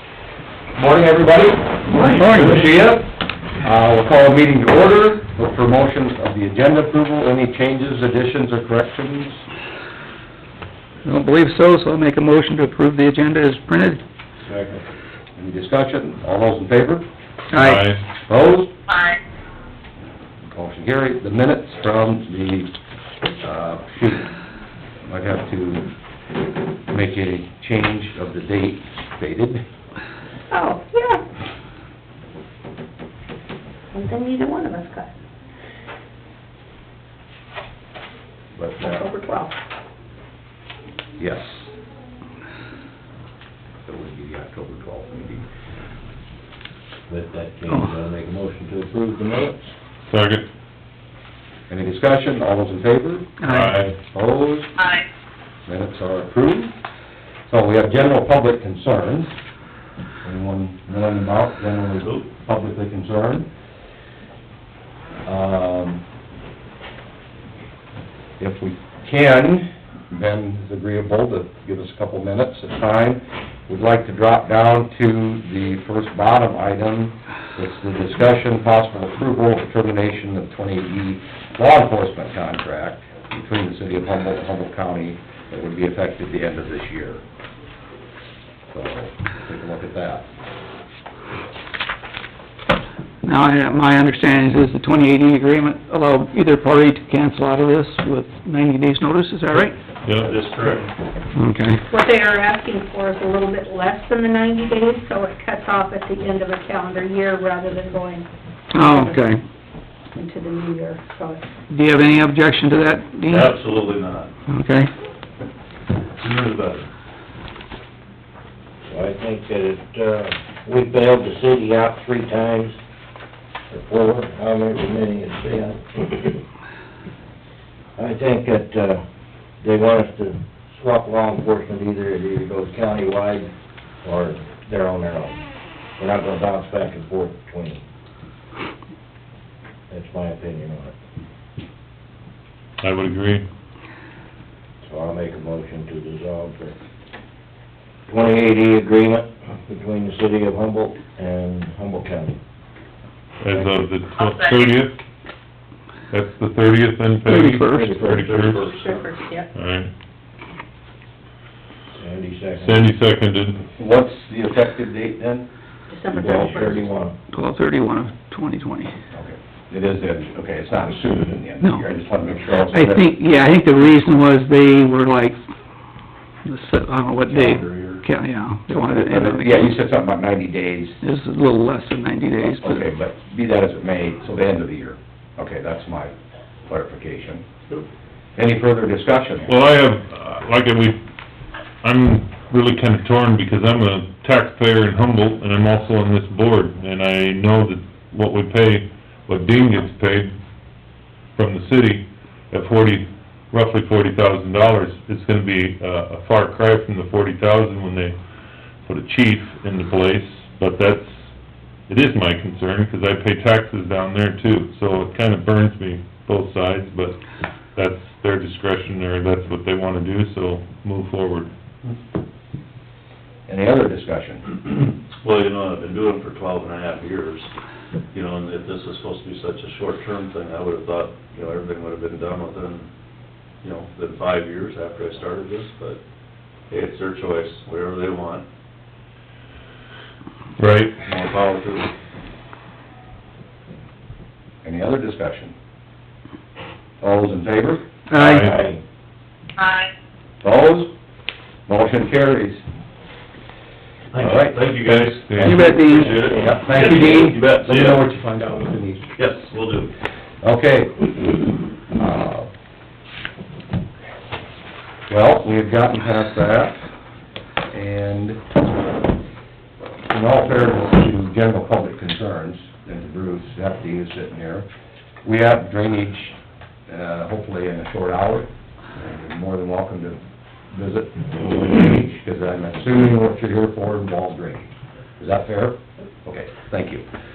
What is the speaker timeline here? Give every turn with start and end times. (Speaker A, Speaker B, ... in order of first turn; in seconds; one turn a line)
Speaker A: 0.8-3.1
Speaker B: 2.0-2.9
Speaker A: 3.6-9.4
Speaker B: 11.1-14.0
Speaker C: 14.4-14.8
Speaker A: 15.4-17.1
Speaker B: 17.5-17.9
Speaker D: 17.6-18.0
Speaker A: 18.3-18.7
Speaker A: 20.5-22.7
Speaker A: 23.4-24.3
Speaker A: 25.1-25.9
Speaker A: 26.9-29.6
Speaker E: 30.5-31.2
Speaker E: 34.0-35.0
Speaker A: 38.5-39.0
Speaker E: 38.8-39.5
Speaker A: 41.2-41.7
Speaker A: 43.9-45.5
Speaker C: 47.1-49.7
Speaker D: 50.1-50.5
Speaker A: 51.7-53.4
Speaker B: 53.4-53.8
Speaker D: 53.5-54.0
Speaker A: 54.0-55.0
Speaker A: 55.7-56.7
Speaker A: 57.5-59.3
Speaker A: 60.2-63.5
Speaker A: 65.2-66.0
Speaker A: 68.4-87.2
Speaker A: 88.7-90.2
Speaker B: 93.2-99.8
Speaker D: 100.0-100.3
Speaker F: 100.2-100.9
Speaker B: 101.3-101.8
Speaker E: 101.9-109.3
Speaker B: 108.7-109.4
Speaker E: 110.1-111.4
Speaker B: 111.7-113.5
Speaker F: 113.3-114.3
Speaker B: 114.5-114.9
Speaker F: 116.2-116.9
Speaker C: 118.9-122.8
Speaker C: 123.7-126.4
Speaker C: 128.0-129.0
Speaker C: 129.6-133.5
Speaker C: 134.0-135.4
Speaker C: 136.0-137.8
Speaker C: 139.9-140.9
Speaker D: 142.8-143.5
Speaker C: 144.8-146.8
Speaker C: 148.1-152.4
Speaker D: 153.4-155.0
Speaker C: 153.5-153.9
Speaker D: 156.1-158.8
Speaker B: 157.2-158.0
Speaker F: 157.7-159.1
Speaker E: 158.3-159.5
Speaker D: 159.5-159.9
Speaker C: 161.9-162.9
Speaker D: 162.6-163.7
Speaker A: 163.8-165.5
Speaker E: 165.9-166.9
Speaker C: 166.1-167.1
Speaker B: 167.3-168.9
Speaker A: 169.1-173.0
Speaker B: 172.5-175.4
Speaker B: 176.4-179.7
Speaker F: 177.3-178.0
Speaker A: 178.9-181.0
Speaker B: 181.0-182.9
Speaker A: 182.5-186.1
Speaker A: 186.7-187.4
Speaker A: 188.4-189.5
Speaker D: 189.5-191.0
Speaker D: 191.8-200.3
Speaker D: 201.3-208.2
Speaker D: 208.8-211.3
Speaker D: 211.9-217.2
Speaker D: 217.8-221.5
Speaker A: 223.5-224.5
Speaker F: 224.7-227.5
Speaker F: 228.1-232.9
Speaker F: 233.6-236.0
Speaker F: 236.7-238.4
Speaker D: 240.6-241.0
Speaker F: 241.0-241.9
Speaker A: 244.6-245.5
Speaker A: 247.0-247.8
Speaker B: 248.1-248.5
Speaker D: 248.2-248.5
Speaker C: 248.3-248.8
Speaker A: 250.4-250.9
Speaker A: 251.7-252.6
Speaker F: 254.1-258.1
Speaker A: 254.2-254.6
Speaker D: 254.8-255.6
Speaker B: 255.4-256.2
Speaker C: 256.1-256.6
Speaker A: 256.3-259.1
Speaker F: 259.2-259.9
Speaker A: 260.4-261.1
Speaker A: 261.9-262.5
Speaker A: 265.1-266.9
Speaker A: 267.7-268.4
Speaker A: 270.1-274.7
Speaker A: 275.2-276.4
Speaker A: 276.9-280.2
Speaker A: 280.7-287.0